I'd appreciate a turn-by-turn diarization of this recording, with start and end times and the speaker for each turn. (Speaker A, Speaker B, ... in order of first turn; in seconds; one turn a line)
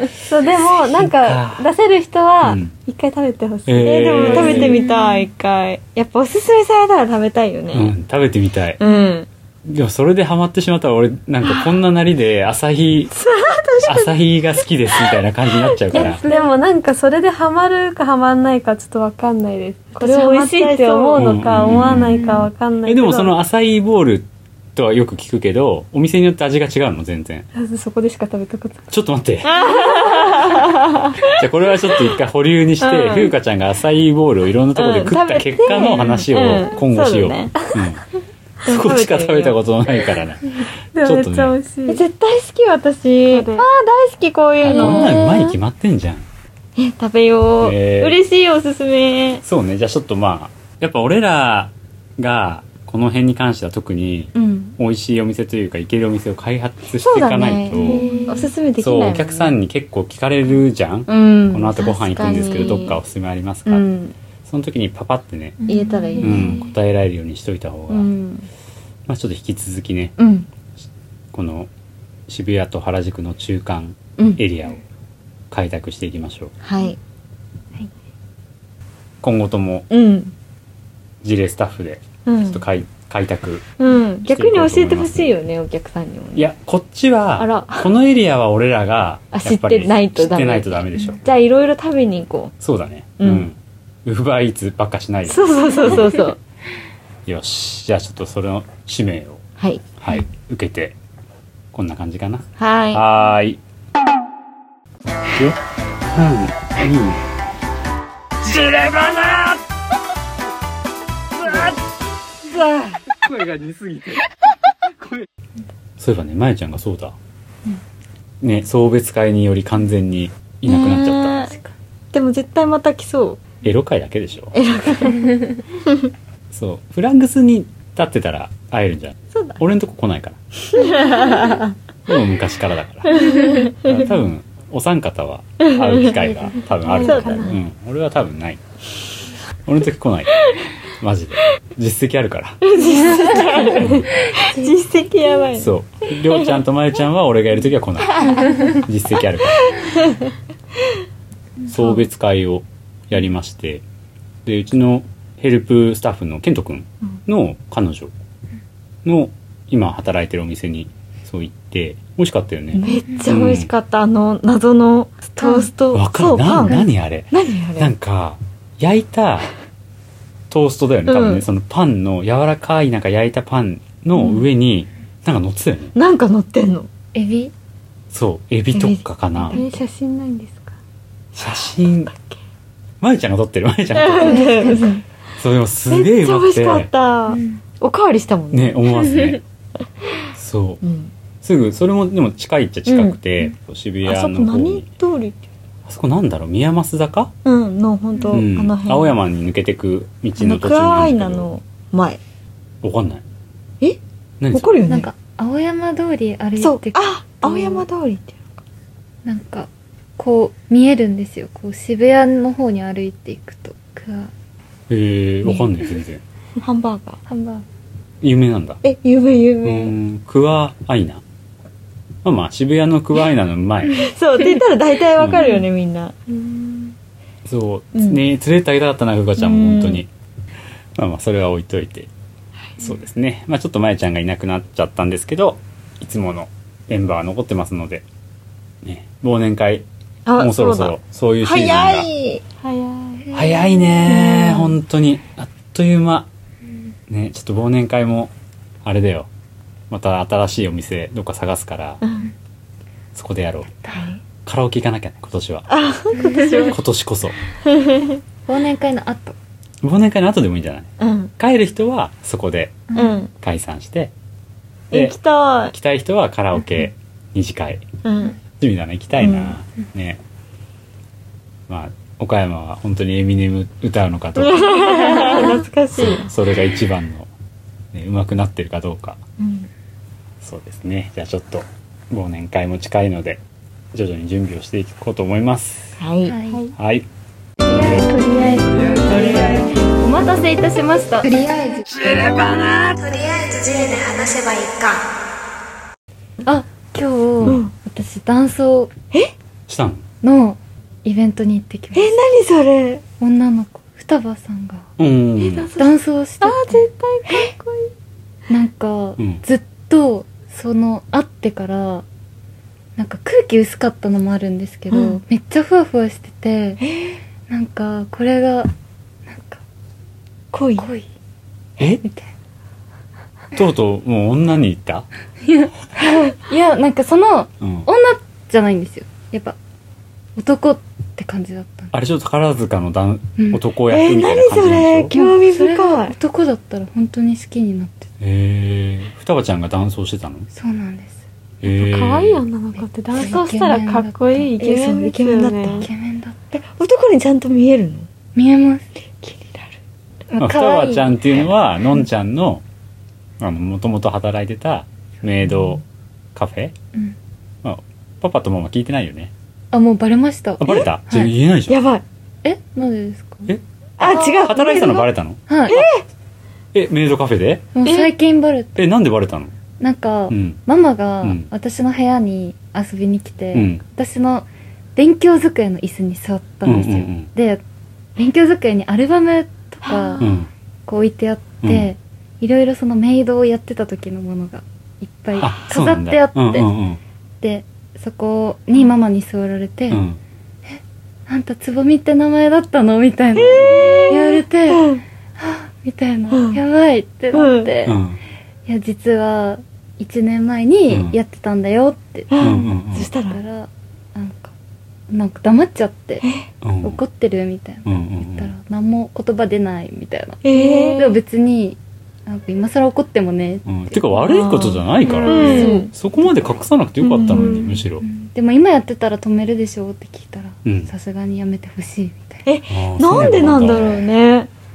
Speaker A: 0.2-4.7
Speaker B: 0.6-1.7
Speaker B: 2.4-2.7
Speaker B: 3.7-4.8
Speaker C: 3.8-8.0
Speaker D: 4.6-5.2
Speaker B: 7.7-8.8
Speaker C: 8.8-9.3
Speaker B: 9.7-13.1
Speaker C: 13.1-16.1
Speaker B: 13.8-16.2
Speaker D: 15.9-16.5
Speaker A: 15.9-23.3
Speaker C: 20.0-21.9
Speaker B: 21.1-22.2
Speaker D: 21.9-22.5
Speaker B: 22.9-27.5
Speaker A: 27.6-28.9
Speaker B: 28.9-29.6
Speaker C: 29.4-31.3
Speaker A: 29.8-30.6
Speaker B: 31.2-38.0
Speaker C: 32.8-33.4
Speaker C: 34.8-37.6
Speaker C: 38.6-39.6
Speaker B: 38.6-41.5
Speaker A: 41.0-42.0
Speaker C: 41.9-45.3
Speaker A: 43.3-43.7
Speaker B: 44.6-46.3
Speaker D: 44.7-45.5
Speaker C: 46.8-49.4
Speaker B: 47.6-48.2
Speaker B: 49.4-58.1
Speaker C: 57.0-59.6
Speaker D: 57.8-58.5
Speaker A: 58.1-58.4
Speaker B: 58.8-63.9
Speaker C: 61.1-63.0
Speaker C: 63.7-64.2
Speaker B: 64.5-65.6
Speaker D: 65.6-66.7
Speaker C: 65.7-66.7
Speaker B: 66.2-68.1
Speaker C: 67.9-68.5
Speaker B: 69.1-70.2
Speaker C: 70.2-70.5
Speaker B: 71.3-71.7
Speaker B: 72.3-74.8
Speaker C: 74.2-74.4
Speaker B: 75.5-76.5
Speaker C: 76.6-77.0
Speaker B: 79.2-79.9
Speaker C: 79.9-80.3
Speaker B: 81.2-83.7
Speaker C: 82.2-82.6
Speaker C: 83.8-86.5
Speaker B: 84.2-85.3
Speaker B: 86.4-91.2
Speaker C: 87.4-87.9
Speaker C: 89.3-92.5
Speaker B: 92.6-96.0
Speaker C: 93.2-93.5
Speaker C: 95.3-96.4
Speaker B: 97.3-99.4
Speaker C: 99.6-99.9
Speaker B: 100.0-101.0
Speaker B: 101.7-103.6
Speaker C: 102.6-103.0
Speaker B: 106.1-107.2
Speaker B: 108.5-109.6
Speaker B: 111.5-111.7
Speaker B: 112.6-114.2
Speaker B: 116.0-117.2
Speaker B: 118.4-121.5
Speaker C: 120.7-121.5
Speaker C: 122.1-123.4
Speaker B: 123.6-124.6
Speaker C: 124.5-125.3
Speaker B: 126.5-130.4
Speaker C: 129.3-129.6
Speaker C: 130.7-131.8
Speaker D: 130.8-131.5
Speaker B: 132.1-138.6
Speaker C: 133.1-134.1
Speaker D: 133.2-133.7
Speaker C: 135.6-137.6
Speaker A: 136.8-137.6
Speaker B: 139.7-142.7
Speaker C: 142.6-145.7
Speaker D: 142.9-144.7
Speaker B: 143.7-144.1
Speaker B: 145.6-150.0
Speaker C: 148.2-148.6
Speaker C: 149.8-150.3
Speaker B: 151.7-153.8
Speaker B: 154.4-158.1
Speaker B: 159.1-163.7
Speaker C: 162.7-167.9
Speaker D: 163.1-163.3
Speaker D: 165.4-165.7
Speaker B: 165.9-169.5
Speaker B: 170.5-175.9
Speaker C: 171.1-171.4
Speaker C: 174.2-174.4
Speaker C: 175.9-176.9
Speaker D: 177.1-177.5
Speaker B: 178.1-179.6
Speaker C: 178.7-179.8
Speaker A: 179.5-180.8
Speaker C: 181.3-182.4
Speaker B: 181.4-182.1
Speaker B: 183.0-184.6
Speaker C: 183.9-185.0
Speaker D: 184.2-184.9
Speaker B: 185.4-186.9
Speaker C: 185.9-189.2
Speaker D: 187.3-187.6
Speaker B: 188.5-189.4
Speaker B: 190.3-190.8
Speaker C: 190.8-191.1
Speaker B: 191.4-194.9
Speaker C: 192.9-193.2
Speaker C: 194.1-195.4
Speaker B: 195.9-197.3
Speaker C: 197.4-199.2
Speaker B: 198.3-201.5
Speaker C: 200.4-202.2
Speaker B: 202.8-203.2
Speaker B: 204.4-204.8
Speaker C: 204.5-205.1
Speaker D: 204.9-207.8
Speaker C: 206.6-208.6
Speaker D: 209.2-214.3
Speaker B: 214.9-216.2
Speaker C: 216.6-217.2
Speaker D: 217.3-217.7
Speaker B: 218.2-218.8
Speaker C: 218.8-219.9
Speaker B: 219.6-221.2
Speaker B: 222.2-224.0
Speaker C: 223.9-226.2
Speaker B: 225.2-225.5
Speaker B: 227.4-230.1
Speaker C: 227.9-228.2
Speaker C: 229.4-230.0
Speaker B: 231.0-232.1
Speaker B: 232.8-238.1
Speaker B: 238.8-239.9
Speaker C: 240.2-242.6
Speaker B: 240.4-242.1
Speaker D: 243.3-244.1
Speaker B: 243.3-246.3
Speaker C: 244.1-244.8
Speaker B: 247.1-248.3
Speaker B: 248.8-249.3
Speaker B: 249.9-252.0
Speaker C: 252.0-252.3
Speaker B: 253.2-253.7
Speaker C: 253.9-254.2
Speaker B: 254.4-255.7
Speaker C: 255.7-256.8
Speaker D: 256.2-256.7
Speaker B: 256.7-257.4
Speaker C: 257.6-258.2
Speaker D: 258.5-259.4
Speaker B: 259.8-262.8
Speaker C: 261.0-261.3
Speaker D: 262.9-263.2
Speaker C: 262.9-263.3
Speaker B: 263.4-264.1
Speaker C: 264.9-265.8
Speaker B: 264.9-265.2
Speaker B: 265.7-267.9
Speaker C: 268.0-268.4
Speaker B: 268.6-270.2
Speaker C: 269.2-269.6
Speaker B: 271.7-277.3
Speaker C: 274.4-276.3
Speaker B: 277.9-279.2
Speaker C: 279.4-279.7
Speaker B: 280.4-283.4
Speaker B: 283.9-286.0
Speaker C: 286.0-286.4
Speaker D: 286.2-286.7
Speaker B: 286.8-287.1
Speaker A: 287.6-289.5
Speaker B: 287.7-288.1
Speaker D: 290.0-291.5
Speaker C: 291.4-295.1
Speaker D: 296.4-298.9
Speaker C: 297.4-297.7
Speaker B: 299.7-300.0
Speaker D: 300.2-302.2
Speaker C: 301.9-303.0
Speaker D: 303.2-304.9
Speaker B: 305.0-305.7
Speaker C: 305.4-307.6
Speaker D: 305.8-307.3
Speaker D: 308.5-312.1
Speaker D: 313.0-316.9
Speaker C: 314.9-315.2
Speaker C: 316.8-317.2
Speaker D: 317.5-318.7
Speaker D: 319.3-319.6
Speaker C: 320.5-320.9
Speaker D: 320.8-321.1
Speaker D: 322.0-322.3
Speaker B: 323.6-325.1
Speaker D: 325.4-329.6
Speaker B: 327.6-327.9
Speaker D: 330.4-331.9
Speaker B: 331.9-335.1
Speaker C: 333.9-336.2
Speaker D: 335.1-338.1
Speaker B: 338.2-340.5
Speaker D: 340.5-341.2
Speaker B: 341.6-342.4
Speaker A: 341.7-345.9
Speaker D: 342.8-344.6
Speaker C: 344.6-345.9
Speaker D: 345.8-346.4
Speaker C: 346.5-348.1
Speaker D: 348.4-348.9
Speaker C: 349.2-349.8
Speaker D: 350.3-351.2
Speaker B: 350.4-352.6
Speaker B: 353.4-355.8
Speaker B: 356.4-356.7
Speaker B: 357.6-359.3
Speaker D: 359.7-361.3
Speaker B: 360.6-361.8
Speaker C: 361.7-362.0
Speaker D: 362.4-363.5
Speaker B: 363.5-365.9
Speaker C: 364.0-365.1
Speaker D: 365.5-365.8
Speaker C: 365.7-366.0
Speaker B: 366.7-367.7
Speaker D: 367.8-368.8
Speaker C: 367.9-368.1
Speaker B: 368.8-369.5
Speaker D: 369.8-377.6
Speaker B: 370.3-370.6
Speaker B: 371.2-371.5
Speaker B: 373.5-373.8
Speaker B: 376.6-377.3
Speaker D: 378.2-386.7
Speaker C: 379.8-380.3
Speaker B: 380.2-380.5
Speaker B: 385.4-387.0
Speaker D: 387.4-390.0
Speaker B: 389.9-390.2
Speaker D: 390.7-398.0
Speaker C: 393.4-395.0
Speaker B: 393.5-394.1
Speaker C: 396.3-396.6
Speaker C: 397.3-397.8
Speaker B: 397.9-398.2
Speaker D: 398.7-402.6
Speaker B: 400.9-401.2
Speaker C: 402.3-403.4
Speaker B: 402.4-403.1
Speaker D: 403.3-404.5
Speaker D: 405.1-406.2
Speaker B: 406.6-407.0
Speaker D: 406.8-414.1
Speaker B: 407.9-408.5
Speaker C: 410.4-411.2
Speaker B: 413.7-418.0
Speaker C: 414.2-415.9
Speaker D: 415.1-416.6
Speaker C: 417.0-417.8
Speaker D: 418.0-422.5
Speaker B: 420.6-420.9
Speaker C: 422.5-424.5
Speaker B: 422.7-424.0